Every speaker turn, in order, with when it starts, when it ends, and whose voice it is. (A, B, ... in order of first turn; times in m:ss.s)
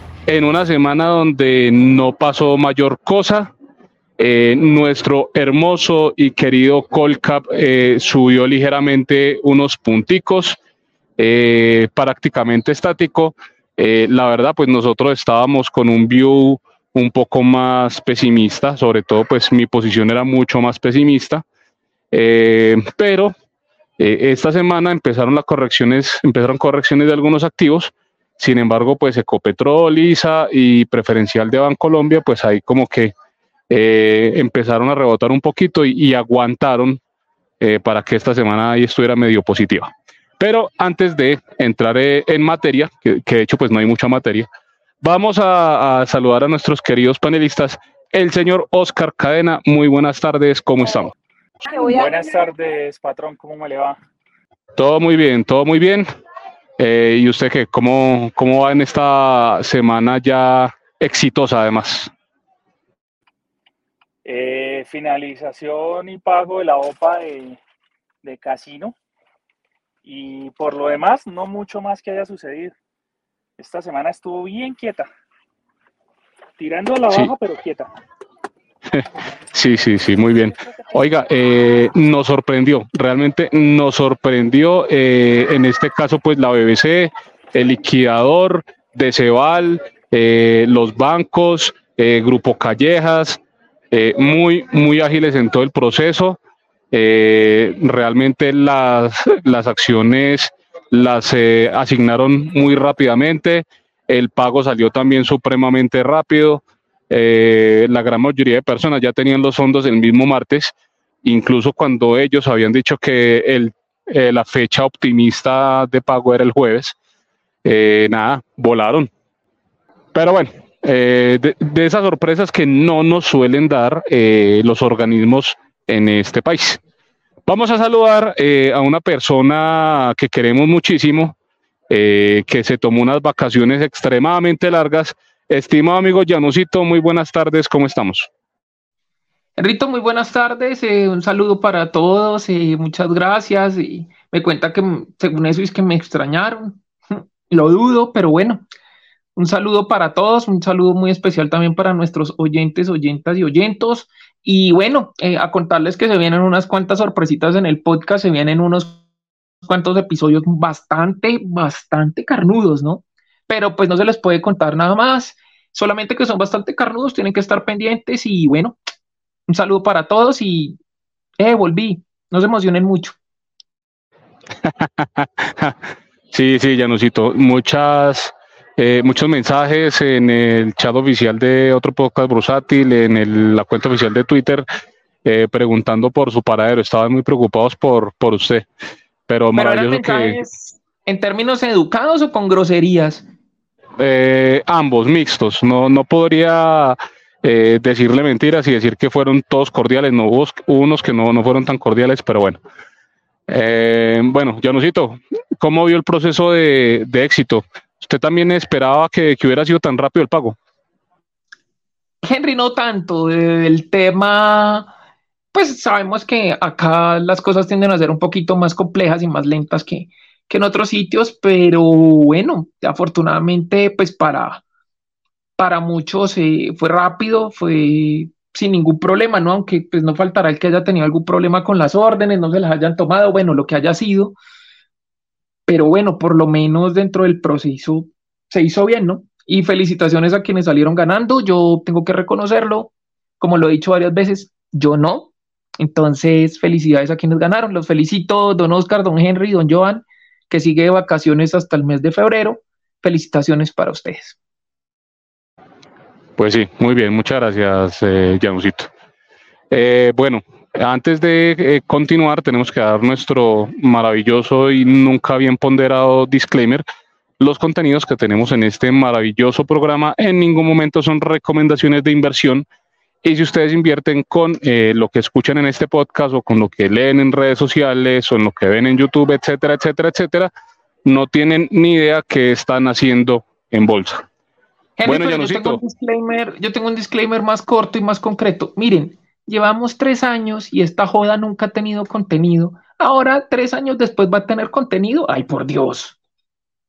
0:00.3-0:03.5 A
0:04.2-0:10.6 A
0:11.2-0:21.4 A
0:22.1-0:23.3 A
0:24.0-0:33.1 A
0:33.7-0:37.0 A
0:37.6-0:39.9 A
0:40.4-0:44.5 A
0:45.0-0:51.1 A
0:51.7-0:54.0 B
0:54.8-0:56.1 A
0:56.8-1:02.1 A
1:04.2-1:07.6 B
1:08.2-1:08.9 B
1:10.0-1:12.7 B
1:13.6-1:15.1 B
1:16.6-1:17.9 B
1:18.9-1:33.4 A
1:20.6-1:20.9 B
1:33.9-1:36.4 A
1:36.9-1:56.9 A
1:57.6-1:59.1 A
2:00.1-2:06.8 A
2:07.4-2:11.3 A
2:11.9-2:18.3 A
2:19.6-2:28.6 C
2:29.4-2:39.0 C
2:39.6-2:48.8 C
2:49.5-2:50.8 C
2:51.4-2:53.2 C
2:54.6-3:04.6 A
3:05.2-3:08.7 A
3:09.3-3:10.4 A
3:09.6-3:13.2 C
3:14.0-3:22.6 A
3:23.5-3:30.6 A
3:32.2-3:34.9 C
3:35.5-3:44.6 C
3:45.6-3:54.4 C
3:55.7-4:14.4 C
4:16.4-4:18.9 A
4:19.7-4:26.8 A
4:27.4-4:32.6 A
4:33.2-4:40.5 A
4:41.0-4:44.2 A
4:45.0-4:56.2 C
4:45.0-4:45.8 A